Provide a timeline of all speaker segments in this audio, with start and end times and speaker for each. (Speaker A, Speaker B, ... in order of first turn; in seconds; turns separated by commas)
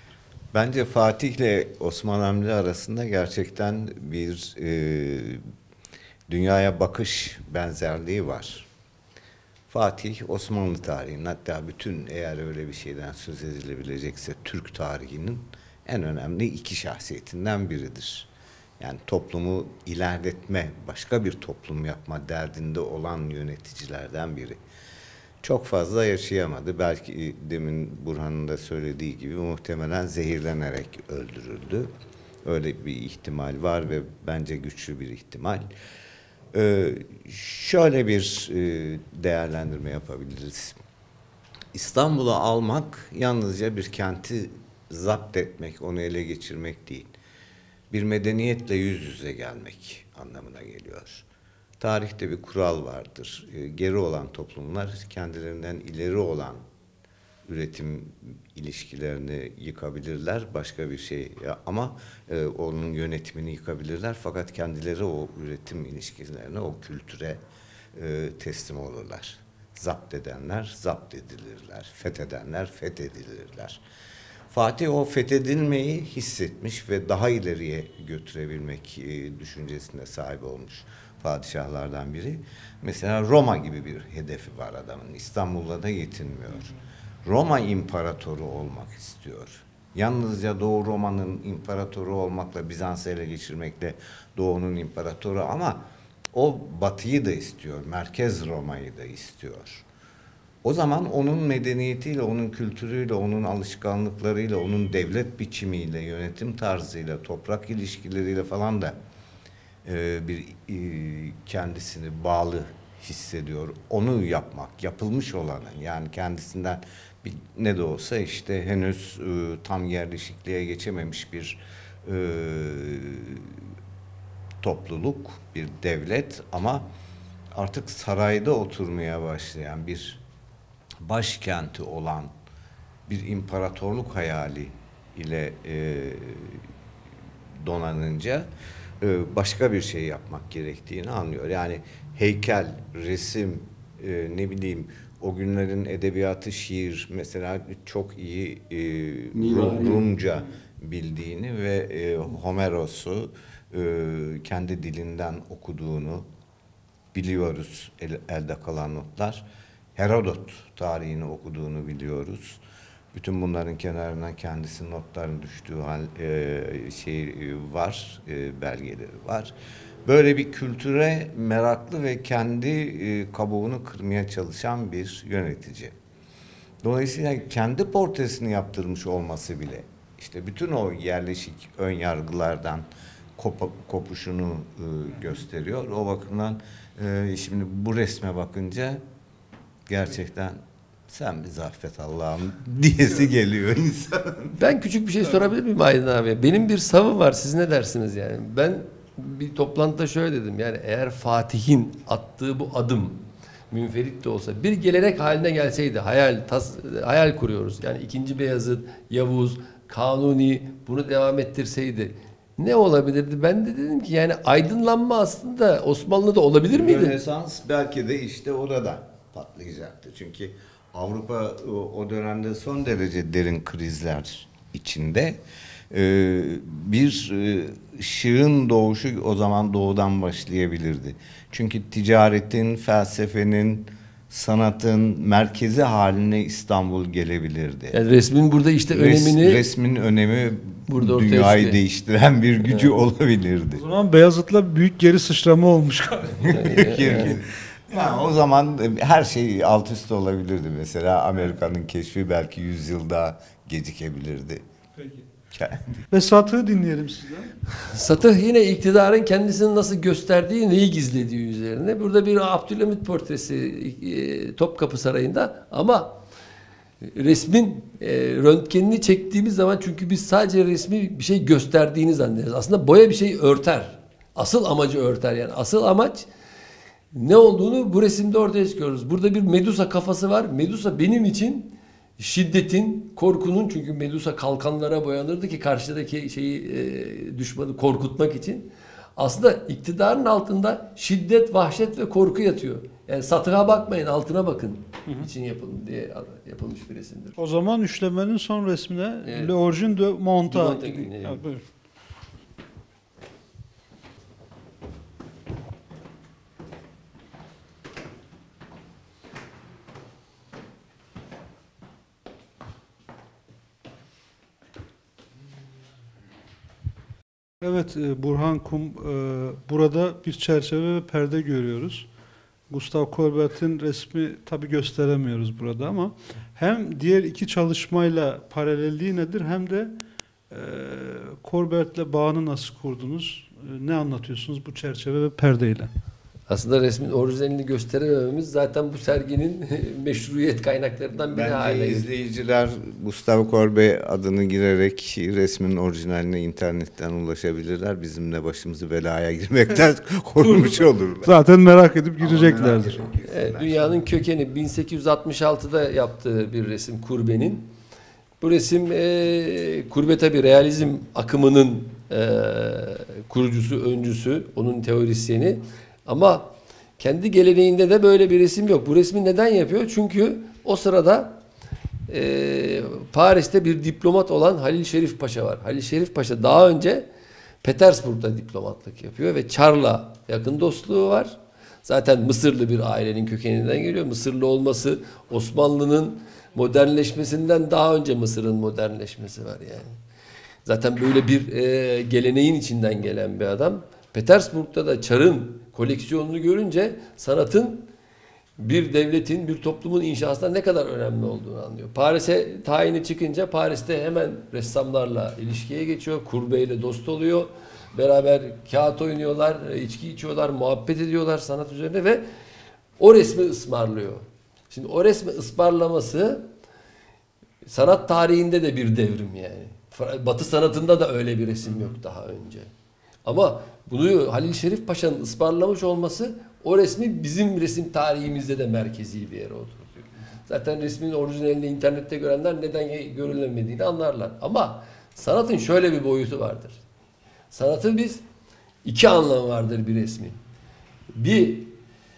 Speaker A: 0.5-5.4, Speaker A: 6.3-8.7, Speaker A: 9.7-18.3, Speaker A: 18.8-24.6, Speaker A: 25.4-31.9, Speaker A: 32.4-35.7, Speaker A: 36.5-40.8, Speaker A: 41.7-47.1, Speaker A: 47.9-51.3, Speaker A: 51.8-56.6, Speaker A: 57.5-67.4, Speaker A: 67.9-73.8, Speaker A: 74.5-86.7, Speaker A: 87.2-99.9, Speaker A: 100.6-109.0, Speaker A: 109.8-123.6, Speaker A: 124.6-126.8, Speaker A: 127.5-130.2, Speaker A: 131.0-132.3, Speaker A: 133.1-136.7, Speaker A: 137.6-138.5, Speaker A: 139.0-156.3, Speaker B: 149.3-150.1, Speaker A: 157.1-162.6, Speaker A: 163.1-169.5, Speaker A: 170.1-176.0, Speaker A: 176.8-182.8, Speaker A: 183.4-189.0, Speaker A: 189.9-194.6, Speaker B: 194.6-217.2, Speaker A: 216.7-238.0, Speaker B: 237.9-239.6, Speaker A: 238.9-243.8, Speaker B: 240.9-241.8, Speaker C: 243.8-247.3, Speaker B: 246.4-247.3, Speaker A: 246.4-254.6, Speaker C: 255.0-255.3, Speaker A: 255.5-256.0, Speaker C: 256.1-257.5, Speaker B: 257.7-266.2, Speaker B: 267.0-276.3, Speaker B: 277.1-297.4, Speaker C: 297.4-301.6, Speaker B: 299.2-299.5, Speaker B: 300.5-301.4, Speaker C: 317.6-322.1, Speaker C: 322.7-330.0, Speaker C: 330.5-335.9, Speaker B: 336.5-342.1, Speaker A: 341.3-351.3, Speaker B: 350.4-350.8, Speaker C: 351.2-353.0, Speaker A: 352.2-354.0, Speaker B: 353.3-357.7, Speaker B: 358.4-371.4, Speaker B: 372.1-377.1, Speaker B: 377.6-390.0, Speaker B: 390.6-397.9, Speaker B: 398.6-412.2, Speaker B: 413.0-416.5, Speaker B: 417.7-422.7, Speaker B: 423.2-436.8, Speaker B: 437.5-438.2, Speaker B: 438.8-440.4, Speaker B: 441.1-441.8